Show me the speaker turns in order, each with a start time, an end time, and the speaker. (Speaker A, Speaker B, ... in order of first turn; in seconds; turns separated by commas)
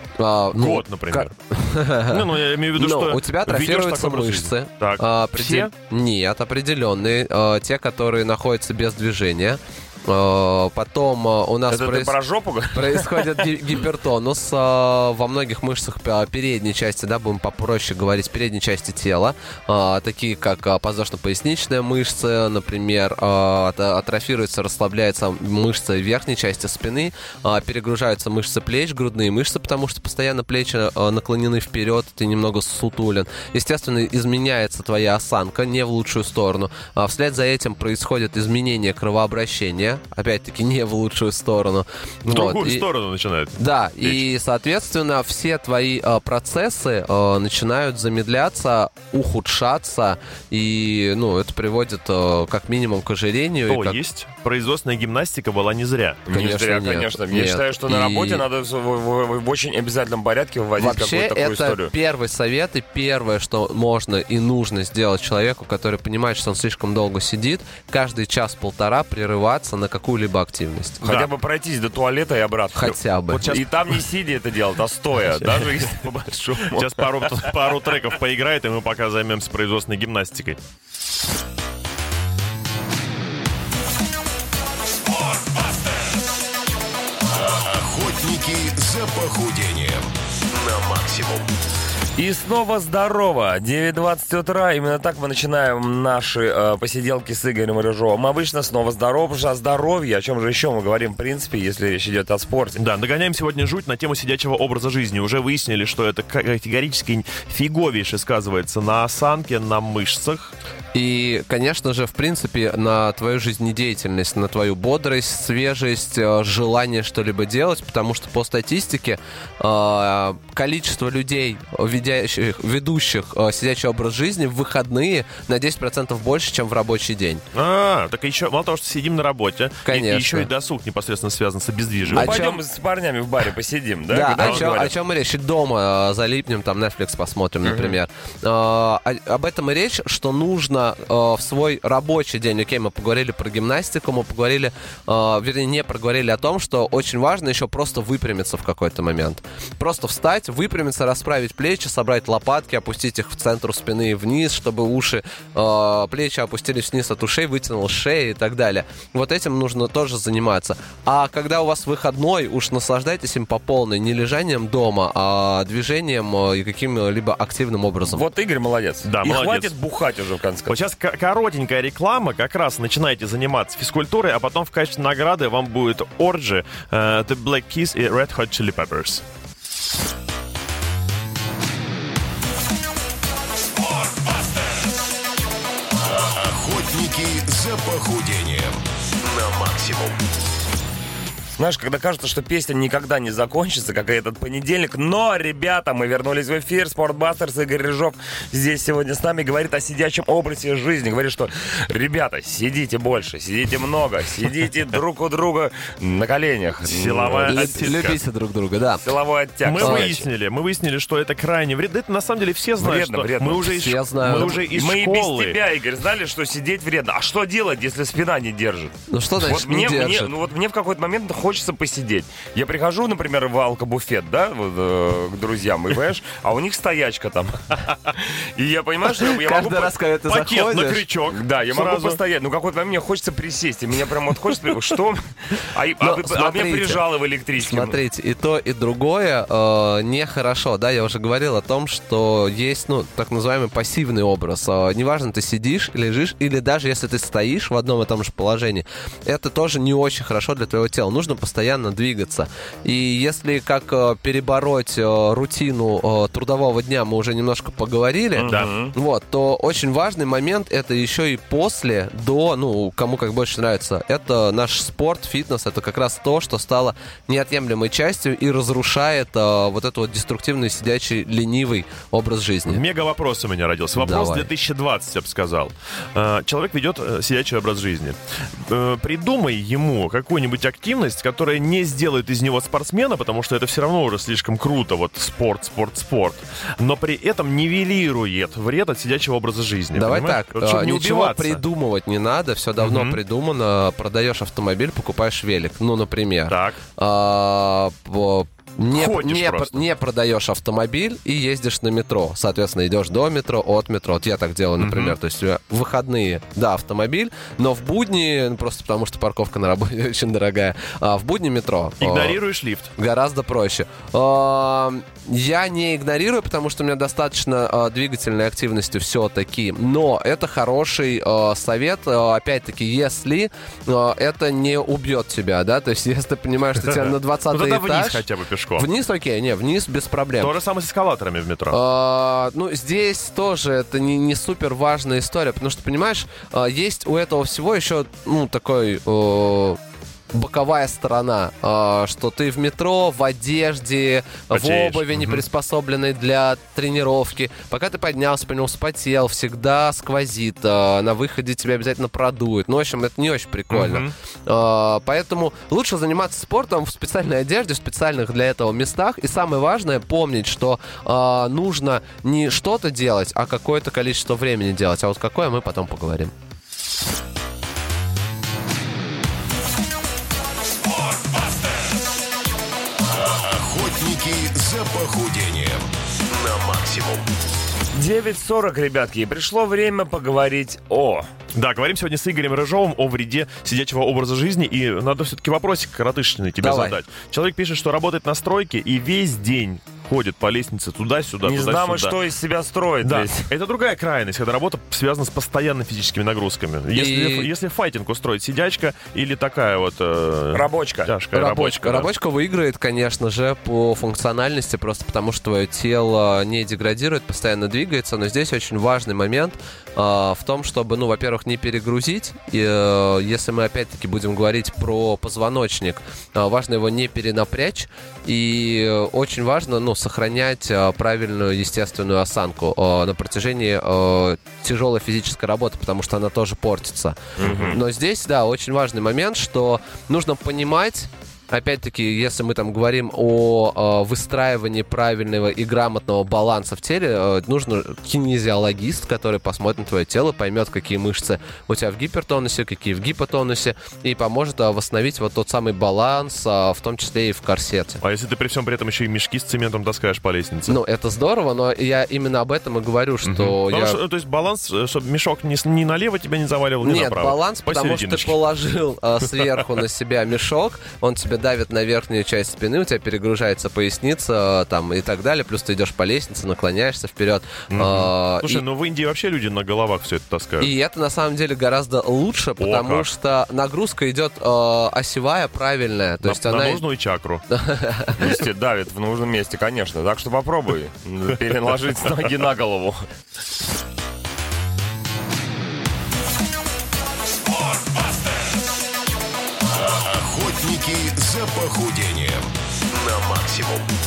Speaker A: 0.2-2.2, Speaker B: 0.5-1.3, Speaker B: 2.1-5.0, Speaker A: 2.8-12.2, Speaker C: 5.3-5.7, Speaker C: 11.7-13.5, Speaker A: 12.7-42.9, Speaker B: 42.3-44.2, Speaker A: 43.6-54.0, Speaker B: 53.7-56.2, Speaker C: 56.3-61.9, Speaker A: 56.3-58.5, Speaker A: 60.8-71.3, Speaker C: 71.0-77.4, Speaker A: 72.7-73.6, Speaker B: 73.3-73.7, Speaker B: 75.4-75.7, Speaker B: 76.7-80.6, Speaker D: 88.1-90.0, Speaker C: 92.2-102.8, Speaker B: 102.8-110.5, Speaker A: 110.9-127.4, Speaker B: 127.5-132.4, Speaker A: 129.8-130.5, Speaker A: 132.1-132.6, Speaker C: 132.1-134.9, Speaker A: 134.1-168.2, Speaker B: 134.4-134.7, Speaker C: 137.6-138.0, Speaker C: 168.1-170.8, Speaker B: 169.0-169.7, Speaker B: 170.7-179.2, Speaker D: 186.8-188.7, Speaker C: 191.6-208.2, Speaker B: 206.8-208.1, Speaker A: 207.5-209.1, Speaker C: 209.0-210.3, Speaker B: 209.6-215.6, Speaker A: 209.8-210.1, Speaker C: 212.8-229.9, Speaker A: 213.7-214.6, Speaker A: 219.1-220.3, Speaker A: 229.2-231.1, Speaker B: 230.3-232.2, Speaker C: 231.3-238.0, Speaker A: 236.0-272.8, Speaker C: 258.4-258.9, Speaker B: 258.5-258.7, Speaker B: 272.7-291.6, Speaker A: 274.0-274.5, Speaker A: 289.9-312.4, Speaker B: 292.8-293.2, Speaker B: 296.5-296.8, Speaker B: 298.9-299.8, Speaker B: 304.8-305.2, Speaker B: 312.0-312.9, Speaker A: 313.0-330.6, Speaker B: 327.5-328.9, Speaker B: 330.4-331.8, Speaker A: 331.7-339.8, Speaker A: 340.3-366.3, Speaker B: 344.5-345.4, Speaker B: 353.7-354.1, Speaker D: 373.8-375.8, Speaker C: 377.9-381.3, Speaker B: 381.6-392.2, Speaker A: 386.6-387.0, Speaker C: 391.4-393.5, Speaker B: 393.0-402.1, Speaker A: 396.9-397.5, Speaker C: 400.5-401.1, Speaker A: 401.3-448.0, Speaker C: 427.4-427.8, Speaker B: 427.4-427.8, Speaker B: 448.0-450.8, Speaker A: 450.7-454.0, Speaker B: 453.2-458.4, Speaker A: 456.8-468.6, Speaker B: 467.7-470.7, Speaker A: 470.6-476.8, Speaker B: 472.6-473.1, Speaker B: 476.2-477.4, Speaker A: 477.5-478.2, Speaker C: 478.2-483.0, Speaker D: 491.0-492.4